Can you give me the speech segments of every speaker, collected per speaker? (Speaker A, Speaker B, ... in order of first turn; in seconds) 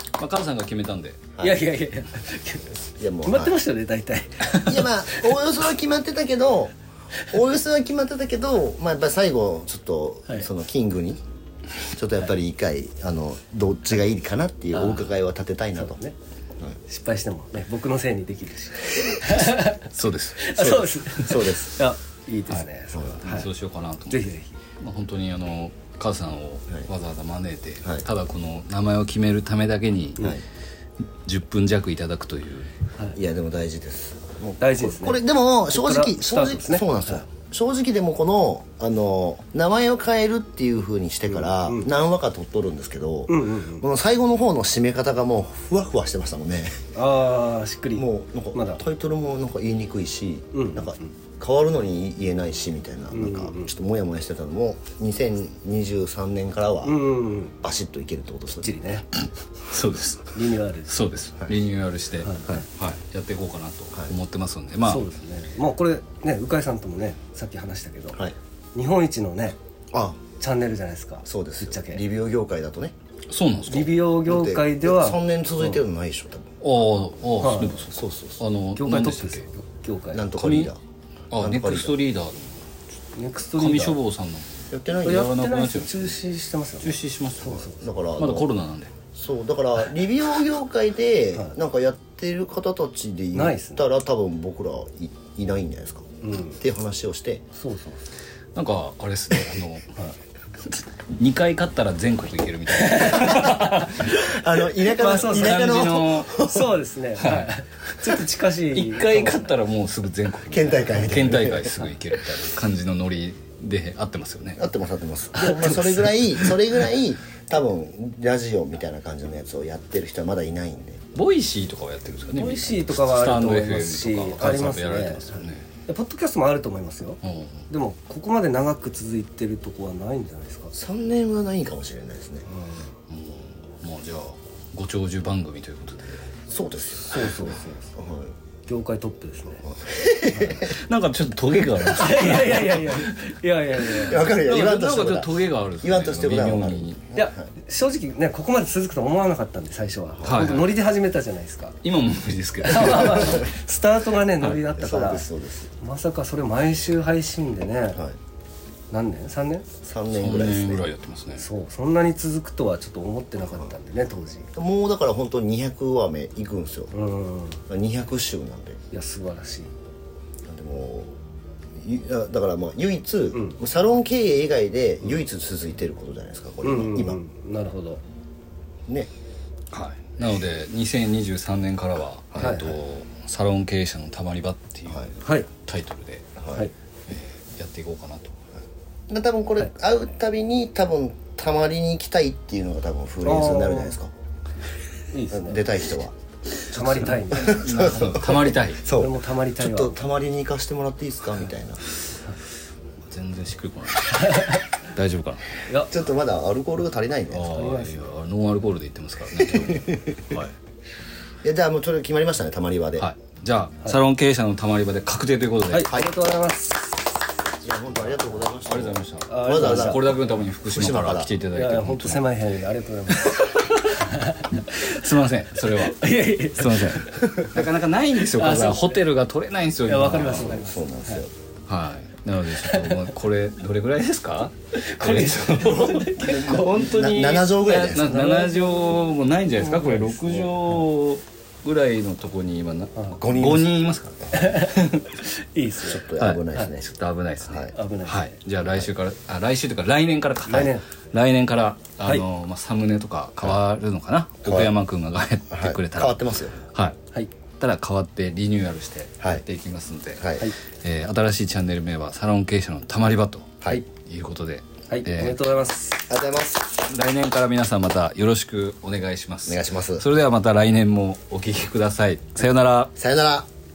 Speaker A: 0.2-1.3, 19.8-21.0, 22.5-30.3, 31.2-32.7, 59.7-65.0, 73.3-74.0, 76.6-79.5, 80.3-80.7, 81.3-82.7, 83.6-86.2, 86.8-88.9, 98.6-99.9, 100.7-104.3, 105.0-106.5, 107.2-114.6, 121.2-125.7, 127.2-127.6, 133.1-136.3, 140.6-147.1, 150.2-150.8, 151.8-153.5, 160.1-161.4, 179.7-186.3, 187.1-188.3, 197.4-198.8, 203.0-205.5, 207.3-210.5, 213.0-215.9, 218.7-222.3, 223.3-230.6, 231.7-245.2, 246.2-256.2, 257.6-265.4, 266.8-272.9
Speaker B: 1.4-1.6, 3.0-3.6, 4.6-11.2, 11.9-16.0, 20.6-21.8, 22.9-23.4, 33.1-46.8, 48.0-57.0, 57.5-58.7, 69.9-70.2, 71.3-72.9, 74.3-76.5, 77.9-78.4, 80.1-80.8, 81.4-82.0, 84.7-85.3, 87.8-88.5, 89.1-97.4, 104.1-106.7, 110.5-111.8, 114.6-121.0, 130.7-132.5, 136.5-137.4, 138.0-138.3, 139.6-140.7, 144.1-147.5, 150.2-150.6, 154.8-155.7, 159.8-160.9, 164.5-166.9, 167.7-168.8, 170.5-171.2, 171.8-177.2, 182.3-182.7, 186.4-186.7, 189.1-194.1, 195.3-201.9, 205.8-207.6, 209.5-210.2, 211.4-213.1, 217.6-221.3, 227.1-227.6, 230.4-231.3, 236.5-238.3, 243.1-243.8, 245.9-246.8, 247.4-247.8, 254.4-254.7, 255.5-256.6, 259.2-259.4, 260.2-260.5, 266.1-266.8, 269.5-270.1, 273.0-273.5
Speaker C: 1.4-2.7, 3.3-5.3, 14.7-15.1, 15.8-16.1, 16.9-23.5, 24.1-24.6, 34.6-37.2, 41.3-41.9, 43.3-43.8, 46.9-48.8, 50.5-50.9, 53.1-53.7, 56.8-57.5, 58.5-59.0, 60.3-61.0, 62.2-62.6, 64.8-68.2, 68.8-69.6, 70.4-72.0, 73.7-75.8, 77.4-77.9, 78.8-80.3, 83.1-84.0, 85.0-87.8, 93.3-93.8, 96.2-96.6, 97.5-98.0, 102.8-103.9, 104.8-109.5, 115.4-116.0, 122.3-130.7, 132.5-132.9, 137.1-137.9, 138.7-139.6, 140.3-140.7, 141.9-144.4, 147.2-151.8, 152.6-155.3, 155.8-158.0, 158.9-159.7, 161.4-164.5, 166.9-167.6, 168.9-169.7, 176.6-178.0, 182.3-182.7, 185.2-185.5, 193.2-194.0, 195.1-195.6, 196.7-198.1, 198.9-200.0, 204.3-204.5, 207.5-208.1, 215.7-217.1, 219.3-220.3, 221.5-224.8, 225.8-227.2, 228.3-229.0, 229.8-231.2, 232.6-233.1, 234.9-237.1, 237.9-240.8, 244.3-246.7, 247.7-248.4, 250.5-250.9, 264.9-266.1